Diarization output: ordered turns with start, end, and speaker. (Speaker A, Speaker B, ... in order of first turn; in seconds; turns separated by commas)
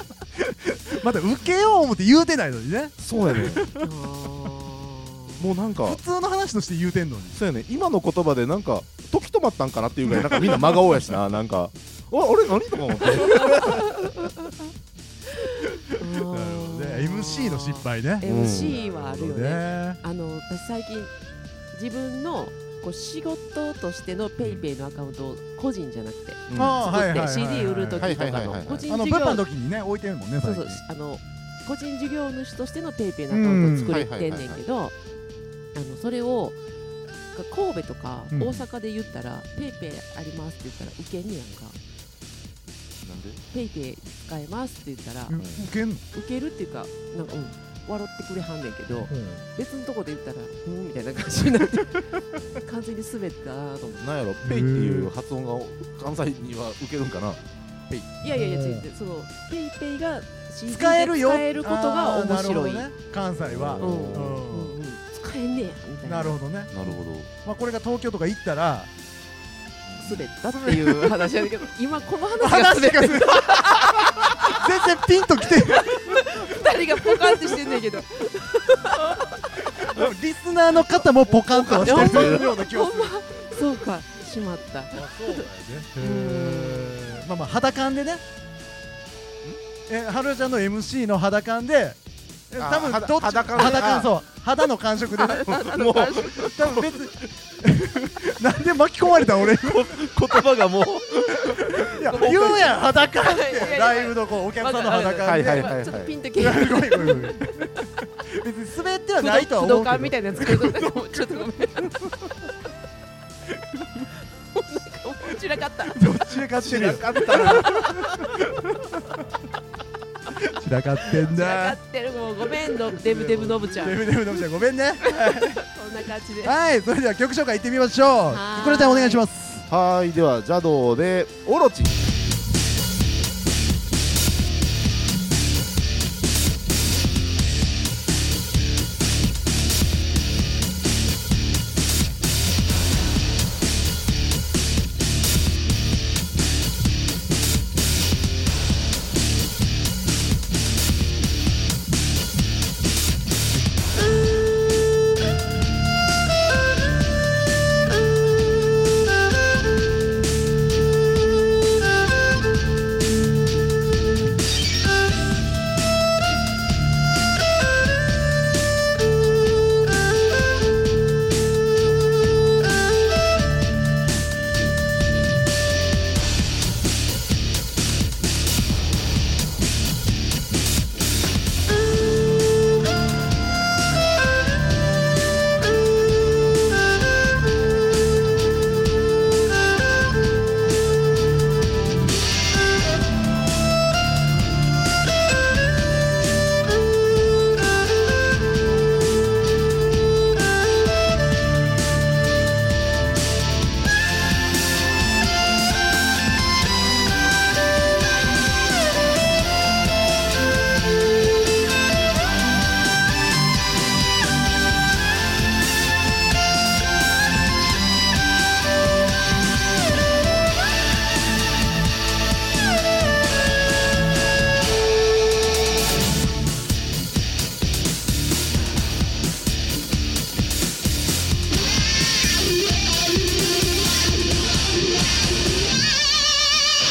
Speaker A: 0.8-3.9, Speaker B: 3.0-3.7, Speaker C: 3.8-5.4, Speaker B: 5.4-6.0, Speaker A: 5.8-7.4, Speaker B: 7.3-14.3, Speaker A: 10.2-10.8, Speaker C: 13.1-14.6, Speaker C: 15.3-21.1, Speaker A: 16.2-20.0, Speaker B: 18.2-18.8, Speaker C: 21.7-29.4, Speaker A: 24.4-24.7, Speaker B: 26.5-26.9, Speaker A: 26.5-28.1, Speaker B: 28.0-28.9, Speaker A: 28.9-30.8, Speaker C: 30.4-34.9, Speaker A: 33.3-34.0, Speaker B: 33.7-34.6, Speaker C: 35.7-36.6, Speaker C: 37.3-41.8, Speaker A: 38.3-38.6, Speaker B: 43.0-43.4, Speaker C: 43.5-45.4, Speaker A: 45.3-46.0, Speaker B: 45.4-45.7, Speaker C: 46.1-54.0, Speaker A: 49.1-49.4, Speaker B: 54.0-58.1, Speaker A: 54.4-55.1, Speaker C: 58.2-62.9, Speaker A: 58.3-58.9, Speaker A: 60.7-64.8, Speaker B: 63.4-64.4, Speaker C: 63.8-66.9, Speaker A: 66.0-66.7, Speaker B: 66.7-67.3, Speaker A: 67.4-68.9, Speaker B: 69.9-70.3, Speaker C: 70.0-74.6, Speaker A: 70.5-71.2, Speaker A: 72.4-76.2, Speaker C: 75.7-79.5, Speaker A: 79.6-83.6, Speaker B: 80.9-82.7, Speaker C: 81.8-85.5, Speaker A: 84.9-88.2, Speaker C: 86.0-87.2, Speaker A: 89.9-92.0, Speaker A: 92.5-95.5, Speaker B: 92.6-94.1, Speaker C: 95.2-96.5, Speaker B: 95.4-97.0, Speaker A: 96.4-99.9, Speaker B: 99.2-102.9, Speaker A: 101.5-105.8, Speaker C: 103.2-107.7, Speaker B: 105.2-106.2, Speaker A: 106.4-111.4, Speaker C: 109.2-112.1, Speaker C: 114.2-116.0, Speaker A: 115.9-119.2, Speaker B: 116.4-118.3, Speaker C: 117.2-118.1, Speaker A: 120.3-121.8, Speaker C: 121.1-124.1, Speaker A: 122.8-125.6, Speaker C: 125.0-126.6, Speaker A: 126.4-129.7, Speaker C: 128.3-129.2, Speaker B: 129.7-132.0